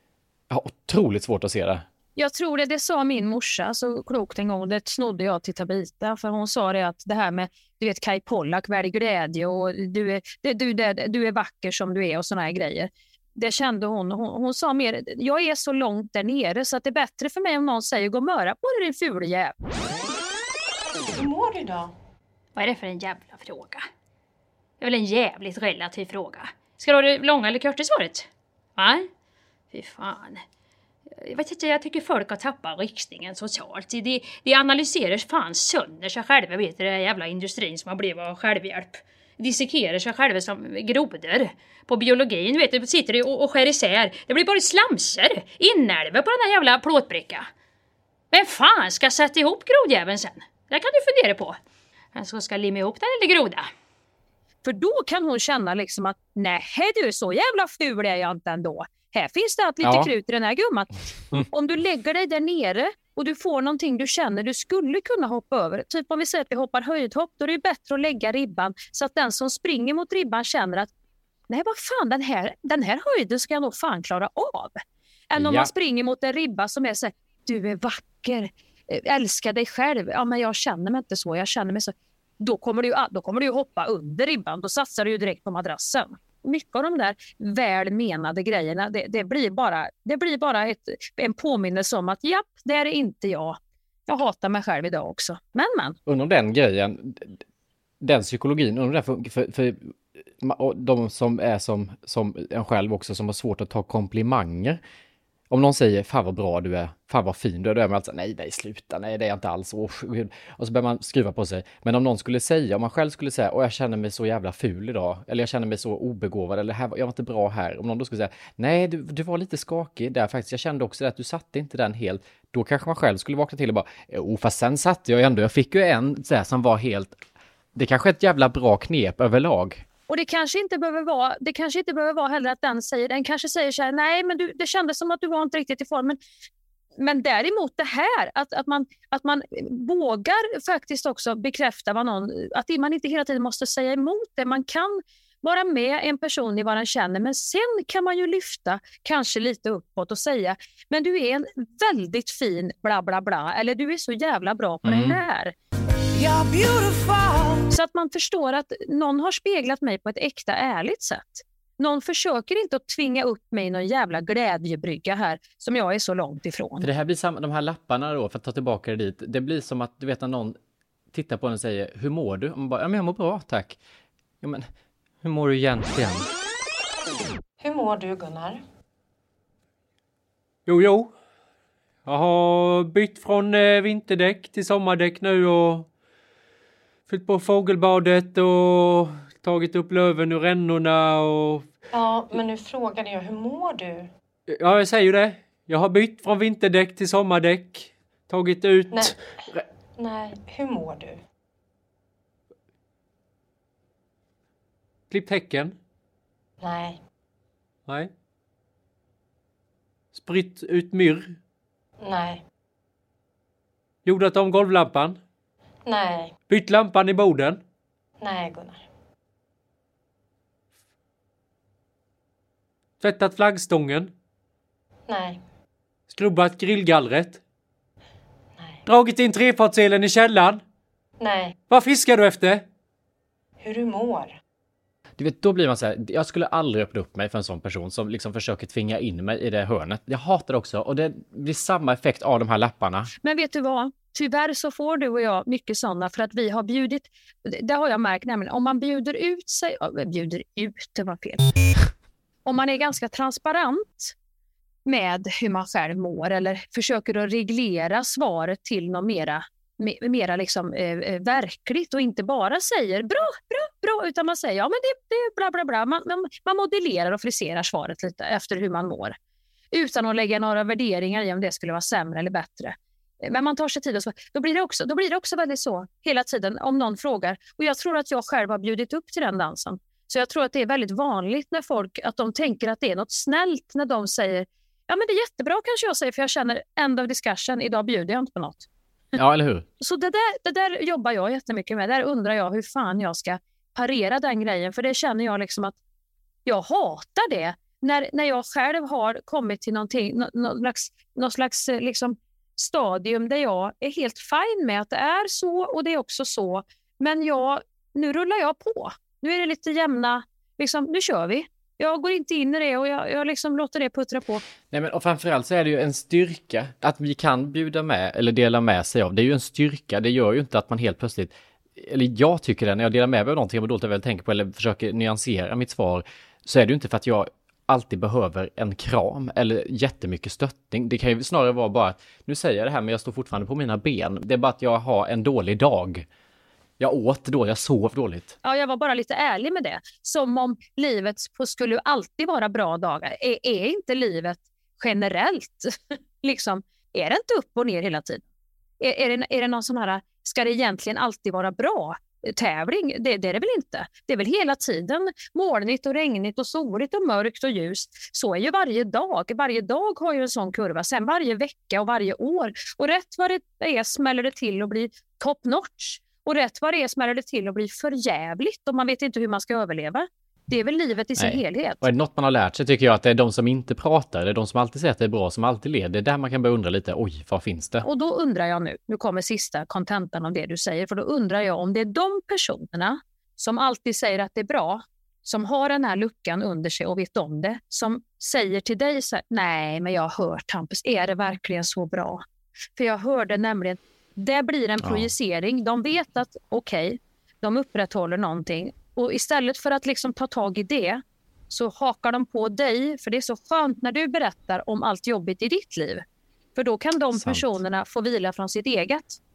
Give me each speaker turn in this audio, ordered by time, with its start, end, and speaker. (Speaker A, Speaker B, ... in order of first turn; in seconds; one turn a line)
Speaker A: 0.5-1.8
Speaker B: 2.1-19.5
Speaker C: 21.2-21.9
Speaker D: 22.6-23.9
Speaker D: 24.8-29.1
Speaker D: 29.7-30.4
Speaker D: 31.1-47.5
Speaker D: 48.3-51.6
Speaker D: 52.1-53.7
Speaker B: 54.6-60.9
Speaker A: 59.8-60.1
Speaker B: 61.5-70.9
Speaker B: 71.5-74.8
Speaker B: 75.3-96.0
Speaker A: 75.3-75.7
Speaker A: 96.0-97.4
Speaker A: 98.0-104.8
Speaker A: 105.5-127.2
Speaker A: 127.7-129.8
Speaker B: 130.1-136.2
Speaker B: 137.0-155.5
Speaker A: 154.8-155.2
Speaker C: 156.1-157.7
Speaker B: 157.7-166.9
Speaker A: 166.8-170.6
Speaker A: 171.1-173.8
Speaker A: 174.4-174.7
Speaker A: 175.2-176.3
Speaker C: 177.6-178.6
Speaker E: 180.7-181.1
Speaker E: 182.1-185.9
Speaker E: 187.1-191.7
Speaker C: 191.9-194.1
Speaker E: 194.5-199.2
Speaker C: 198.9-199.2
Speaker C: 200.0-201.2
Speaker E: 205.1-205.8
Speaker C: 206.6-207.0
Speaker E: 210.1-211.3
Speaker C: 212.0-212.4
Speaker E: 214.0-215.2
Speaker C: 215.9-216.3
Speaker E: 216.5-217.6
Speaker C: 218.2-218.8
Speaker E: 223.0-224.1
Speaker C: 225.1-225.4
Speaker E: 226.1-227.4
Speaker E: 228.8-230.6
Speaker C: 231.2-231.6
Speaker E: 231.7-232.6
Speaker C: 233.6-234.4
Speaker A: 235.2-243.1
Speaker B: 243.2-251.4
Speaker B: 252.4-254.1
Speaker B: 254.8-269.1
Speaker B: 269.7-288.7
Speaker A: 289.1-289.6
Speaker B: 289.8-295.7
Speaker B: 296.4-314.4
Speaker A: 314.7-336.1
Speaker A: 336.8-338.3
Speaker B: 338.4-348.2
Speaker B: 348.8-371.8
Speaker A: 371.2-377.9
Speaker B: 377.8-392.2
Speaker B: 392.8-406.0
Speaker A: 394.8-395.1
Speaker B: 406.6-409.2
Speaker A: 407.1-407.5